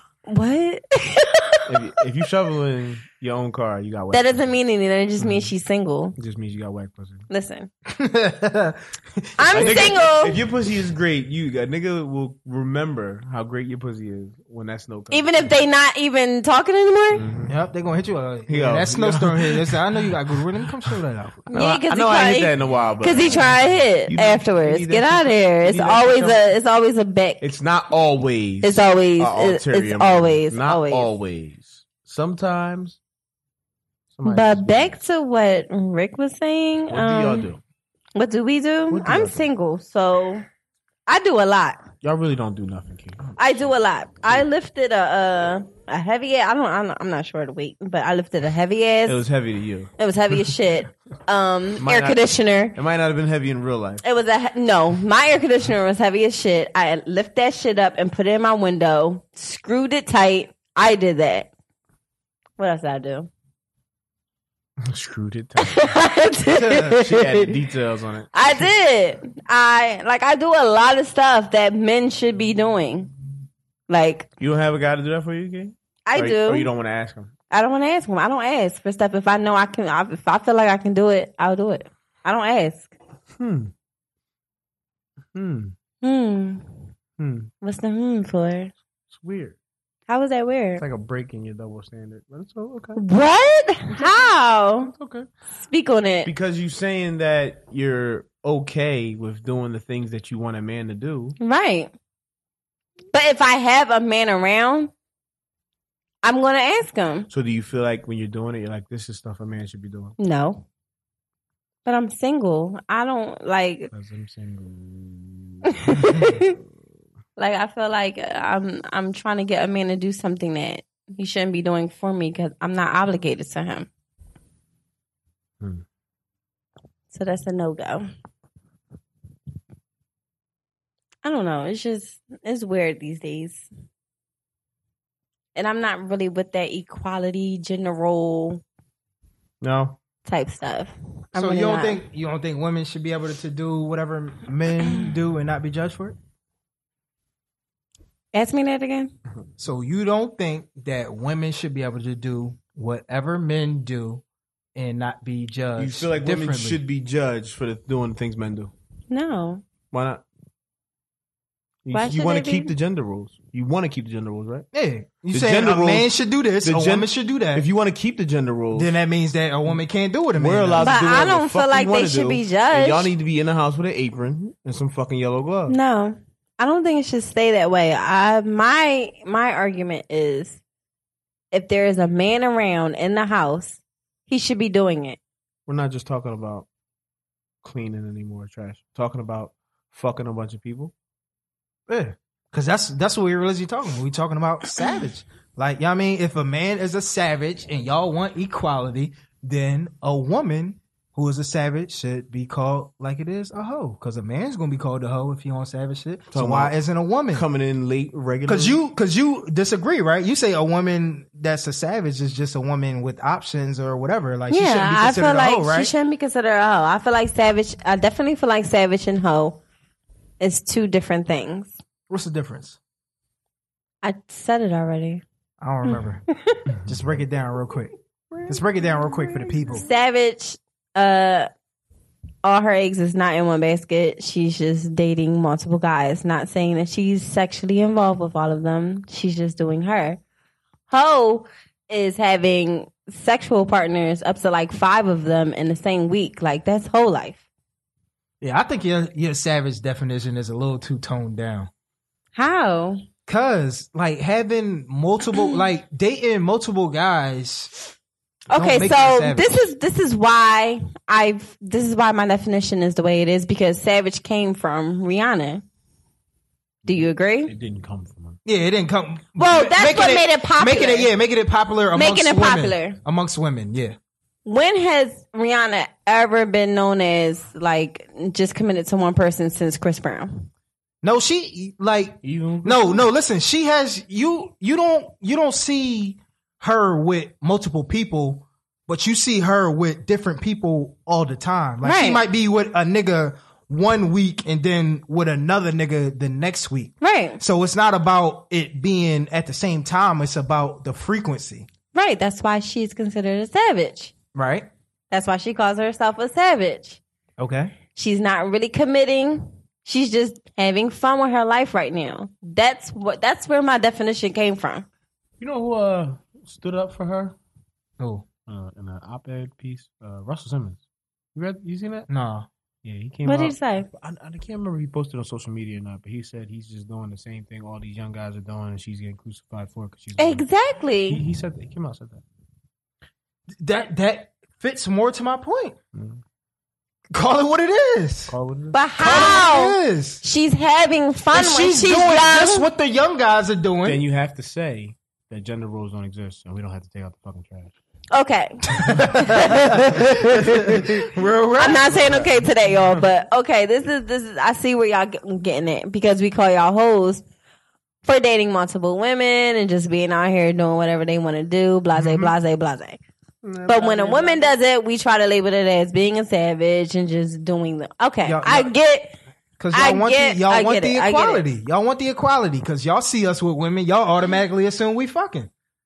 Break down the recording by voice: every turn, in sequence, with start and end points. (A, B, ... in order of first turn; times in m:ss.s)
0:00.2-0:01.6 A
0:01.7-0:04.5 B
0:04.1-0:06.2 A
0:05.2-0:05.5 B
0:06.2-0:07.3 B
0:07.3-0:07.7 A
0:07.9-0:10.0 C
0:09.4-0:10.4 A
0:09.5-0:15.6 B
0:15.1-0:17.2 A
0:17.1-0:17.5 B
0:17.5-0:21.5 C
0:18.5-0:20.1 B
0:21.5-0:27.5 A
0:21.5-0:26.4 B
0:27.4-0:33.0 B
0:28.6-0:31.1 A
0:34.1-0:35.0 B
0:34.2-0:37.4 A
0:36.9-0:37.6 B
0:38.1-0:40.4 A
0:38.9-0:39.4 B
0:41.1-0:41.8 A
0:42.0-0:43.7 B
0:43.4-0:49.2 A
0:49.0-0:49.9 B
0:50.0-0:52.7 A
0:51.8-0:52.2 B
0:52.7-0:54.0 B
0:54.0-1:01.5 A
1:02.6-1:03.3 A
1:04.8-1:06.0 B
1:05.6-1:07.5 A
1:06.6-1:08.6 B
1:06.6-1:06.9 C
1:08.3-1:13.1 A
1:13.9-1:14.3 A
1:14.4-1:17.3 B
1:16.1-1:16.7 A
1:17.5-1:22.9 A
1:23.4-1:23.7 B
1:25.3-1:25.7 B
1:26.0-1:26.6 A
1:27.2-1:27.5 B
1:27.6-1:28.7 A
1:29.1-1:29.6 B
1:30.1-1:30.8 A
1:30.8-1:33.0 B
1:33.0-1:34.9 A
1:33.9-1:35.3 B
1:35.6-1:36.3 A
1:36.2-1:41.4 B
1:41.4-1:41.9 A
1:43.1-1:44.9 A
1:46.2-1:47.3 A
1:47.3-1:50.2 B
1:50.2-1:50.6 A
1:51.8-1:53.9 A
1:53.9-1:56.6 B
1:55.7-1:56.6 A
1:57.4-2:03.9 A
2:07.1-2:08.1 A
2:11.2-2:13.6 A
2:15.5-2:18.6 A
2:19.6-2:20.0 B
2:20.2-2:22.0 A
2:21.3-2:26.2 C
2:28.3-2:29.1 A
2:29.6-2:34.2 C
2:34.7-2:36.8 C
2:35.8-2:38.7 B
2:39.1-2:39.6 A
2:39.9-2:40.2 B
2:41.8-2:44.6 B
2:41.9-2:42.7 A
2:44.7-2:47.7 C
2:45.3-2:46.1 B
2:46.6-2:48.9 B
2:48.7-2:51.0 C
2:50.4-2:55.8 B
2:50.8-2:53.1 A
2:55.7-3:00.6 A
3:01.5-3:05.2 A
3:05.7-3:06.7 B
3:07.6-3:10.9 B
3:11.9-3:27.4 C
3:26.3-3:26.7 B
3:27.3-3:28.8 B
3:28.5-3:35.9 C
3:34.5-3:39.6 A
3:40.4-3:41.7 A
3:42.1-3:42.8 C
3:44.0-3:45.2 A
3:45.6-3:46.2 C
3:46.7-3:47.0 B
3:46.8-3:47.9 C
3:48.3-3:49.7 B
3:48.5-3:49.9 C
3:49.7-3:51.5 A
3:52.4-4:00.2 A
4:00.9-4:07.4 A
4:08.4-4:11.7 C
4:12.3-4:13.0 A
4:13.3-4:17.7 C
4:18.5-4:25.6 A
4:18.5-4:19.5 C
4:26.8-4:28.4 B
4:26.8-4:27.5 A
4:28.4-4:34.0 C
4:29.4-4:31.1 A
4:31.9-4:33.0 A
4:34.4-4:40.5 A
4:41.0-5:01.7 C
4:42.2-4:43.0 B
4:51.8-4:52.2 A
4:57.0-4:57.4 A
5:01.9-5:04.1 A
5:04.3-5:04.7 C
5:05.1-5:07.0 A
5:07.4-5:07.7 C
5:07.9-5:14.8 A
5:15.4-5:17.3 B
5:18.0-5:18.3 C
5:18.5-5:20.8 B
5:21.3-5:22.1 B
5:22.1-5:22.5 C
5:22.8-5:30.4 B
5:23.2-5:23.9 A
5:30.2-5:31.2 A
5:31.1-5:32.2 B
5:33.6-5:35.8 C
5:35.9-5:36.2 B
5:37.1-5:38.3 C
5:38.3-5:38.8 B
5:38.7-5:42.6 A
5:39.0-5:40.2 C
5:41.3-5:44.0 C
5:43.8-5:47.7 B
5:48.1-5:50.8 A
5:48.8-5:52.3 C
5:51.6-5:57.2 A
5:51.7-5:52.3 B
5:58.0-6:03.0 A
6:02.0-6:02.3 C
6:03.4-6:04.5 B
6:03.6-6:09.1 A
6:08.2-6:08.7 C
6:09.6-6:15.5 C
6:09.7-6:11.4 A